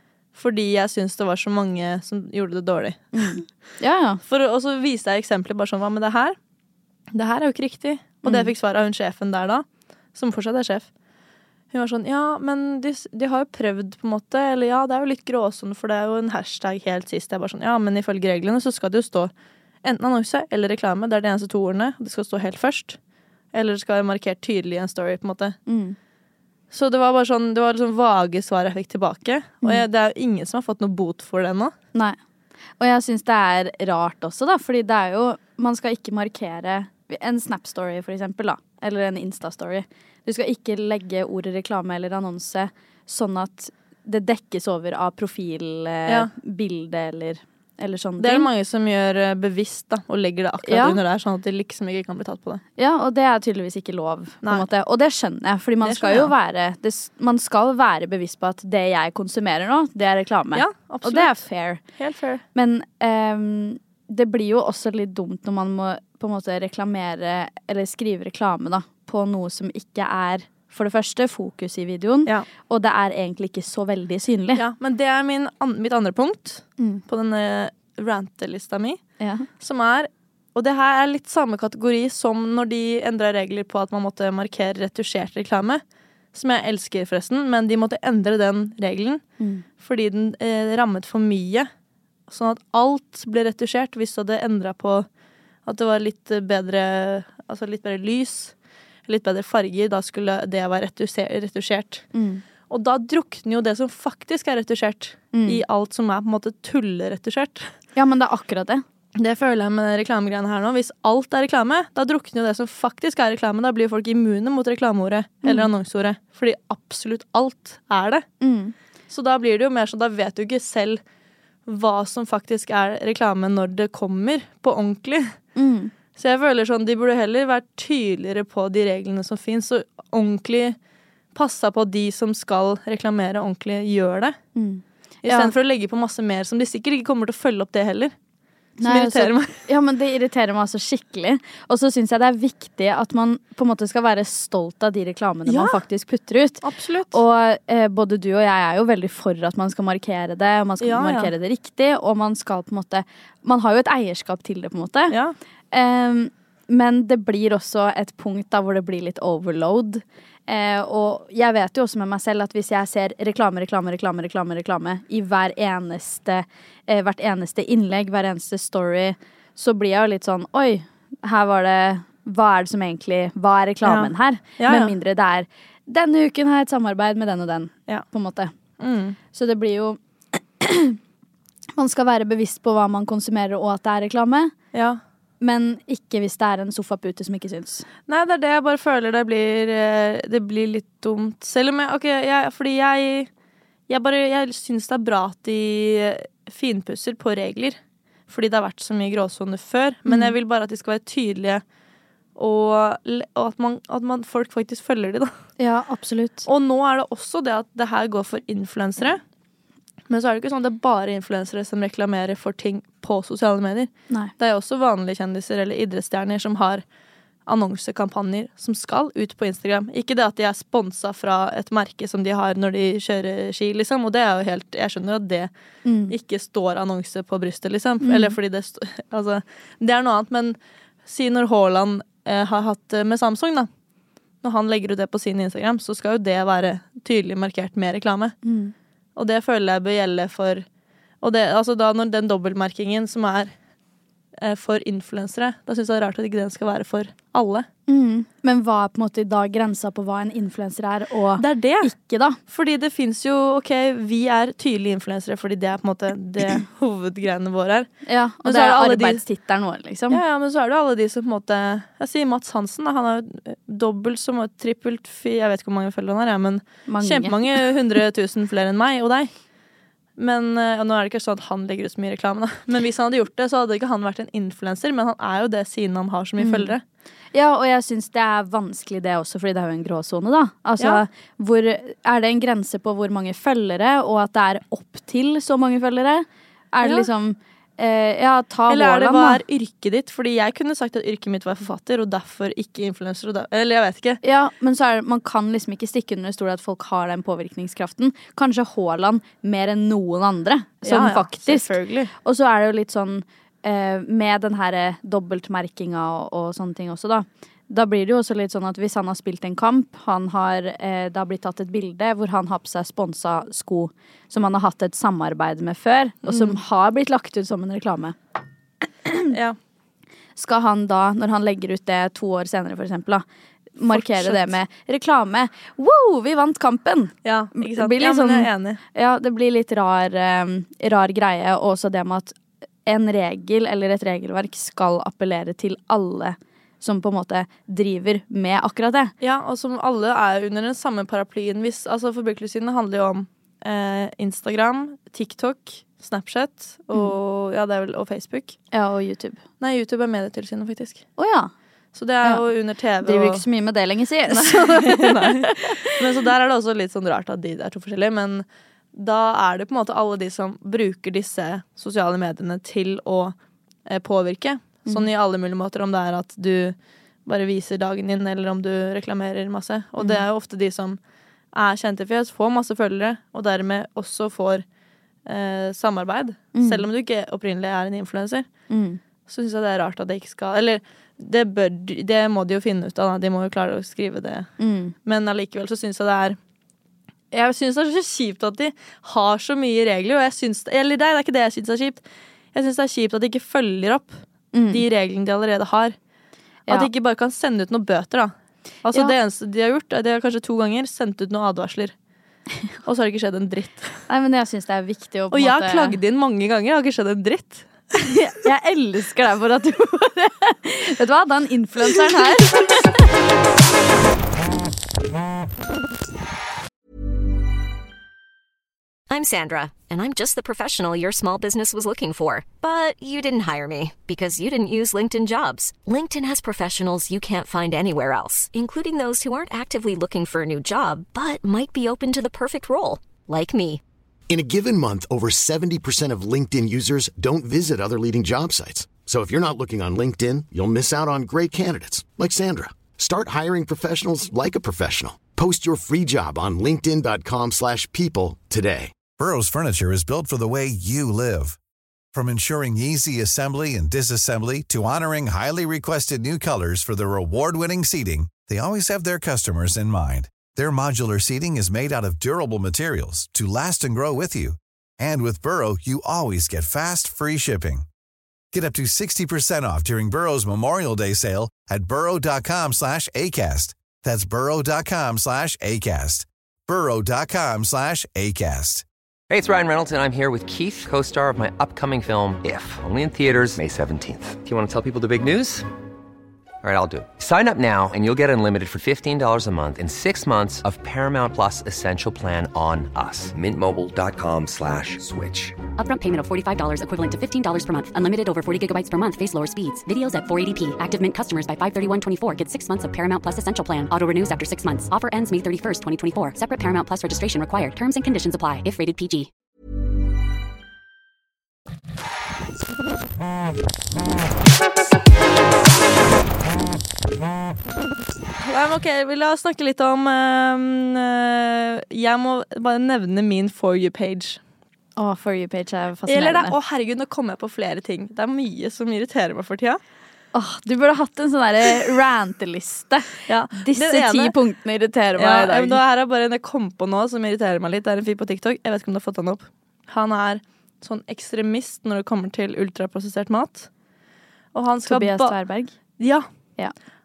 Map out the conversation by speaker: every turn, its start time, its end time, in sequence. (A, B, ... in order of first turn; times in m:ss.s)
0:00.3-0:03.4 A
0:03.1-0:04.2 B
0:04.3-0:06.4 A
0:07.1-0:10.9 A
0:08.2-0:08.5 B
0:11.7-0:19.3 A
0:19.8-0:23.0 A
0:23.5-0:25.6 A
0:25.7-0:26.0 B
0:26.7-0:31.7 A
0:32.8-0:48.5 B
0:48.2-0:52.6 A
0:50.6-0:51.0 B
0:52.8-1:01.8 B
0:55.8-0:56.3 A
1:00.6-1:01.4 A
1:02.0-1:02.4 A
1:02.6-1:14.6 B
1:14.6-1:19.0 A
1:19.2-1:19.5 B
1:19.6-1:25.8 A
1:26.3-1:29.2 A
1:29.8-1:31.7 A
1:32.3-1:35.1 A
1:35.6-1:38.5 A
1:39.1-1:42.1 A
1:42.1-1:42.4 B
1:42.7-1:47.7 A
1:45.3-1:45.6 B
1:47.9-1:48.8 B
1:49.2-1:58.2 A
1:55.4-1:55.7 B
1:58.4-1:58.7 B
1:59.1-2:01.0 A
2:01.7-2:05.4 A
2:05.6-2:05.9 B
2:06.2-2:10.8 A
2:11.4-2:14.4 A
2:14.6-2:15.5 B
2:15.2-2:18.1 A
2:18.8-2:35.1 B
2:18.8-2:19.6 A
2:25.4-2:25.8 A
2:26.6-2:27.2 A
2:30.8-2:31.3 A
2:35.7-2:58.5 B
2:53.8-2:54.9 A
2:58.8-2:59.2 A
2:59.3-3:01.0 B
3:01.8-3:04.5 B
3:04.7-3:05.0 A
3:05.4-3:07.9 B
3:08.1-3:13.3 A
3:13.9-3:17.8 A
3:18.3-3:21.6 A
3:20.1-3:20.3 B
3:22.4-3:25.3 A
3:25.6-3:26.4 B
3:26.4-3:29.2 A
3:30.1-3:36.8 A
3:37.4-3:45.5 A
3:45.8-3:46.1 B
3:46.1-3:53.7 A
3:48.0-3:48.4 B
3:54.4-3:58.4 A
3:58.4-3:58.7 B
3:59.2-4:00.6 A
4:01.2-4:03.5 A
4:04.4-4:07.7 A
4:07.9-4:12.4 B
4:11.4-4:11.9 A
4:12.5-4:17.9 A
4:18.1-4:20.2 B
4:18.4-4:19.2 A
4:20.1-4:29.3 A
4:26.9-4:27.4 B
4:30.2-4:36.8 A
4:36.4-4:36.7 B
4:37.3-4:49.4 B
4:48.7-4:54.2 A
4:54.2-5:01.7 B
5:00.8-5:02.1 A
5:02.2-5:18.2 B
5:16.3-5:16.6 A
5:19.0-5:19.3 B
5:19.3-5:19.6 A
5:20.4-5:23.2 B
5:23.8-5:39.1 B
5:23.9-5:24.5 A
5:27.2-5:28.8 A
5:39.2-5:48.6 A
5:48.7-5:49.4 B
5:49.6-5:51.0 A
5:51.2-5:51.5 B
5:51.9-5:53.4 A
5:53.0-5:55.9 B
5:54.3-6:03.4 A
6:03.9-6:06.8 A
6:07.3-6:11.0 A
6:11.5-6:14.6 A
6:15.3-6:18.5 A
6:16.6-6:16.8 B
6:18.7-6:19.0 B
6:19.3-6:24.5 A
6:24.6-6:24.9 B
6:25.0-6:26.4 A
6:27.3-6:32.0 A
6:32.5-6:35.9 A
6:34.5-6:34.8 B
6:36.7-6:38.3 A
6:38.8-6:41.9 A
6:42.8-6:44.0 A
6:44.1-6:46.0 B
6:45.3-6:47.6 A
6:48.0-6:52.8 B
6:59.1-7:13.8 C
7:14.3-7:28.9 D
7:29.2-7:31.6 E
7:32.1-7:47.9 E
7:48.5-7:58.8 E
7:59.3-8:05.6 F
8:06.6-8:15.6 F
8:15.8-8:29.3 G
8:38.4-8:44.4 A
8:45.0-8:46.6 B
8:46.1-8:49.8 A
8:50.3-8:55.8 B
8:53.3-8:54.3 A
8:55.2-9:03.7 A
9:04.5-9:05.4 A
9:04.9-9:05.7 B
9:06.0-9:06.3 A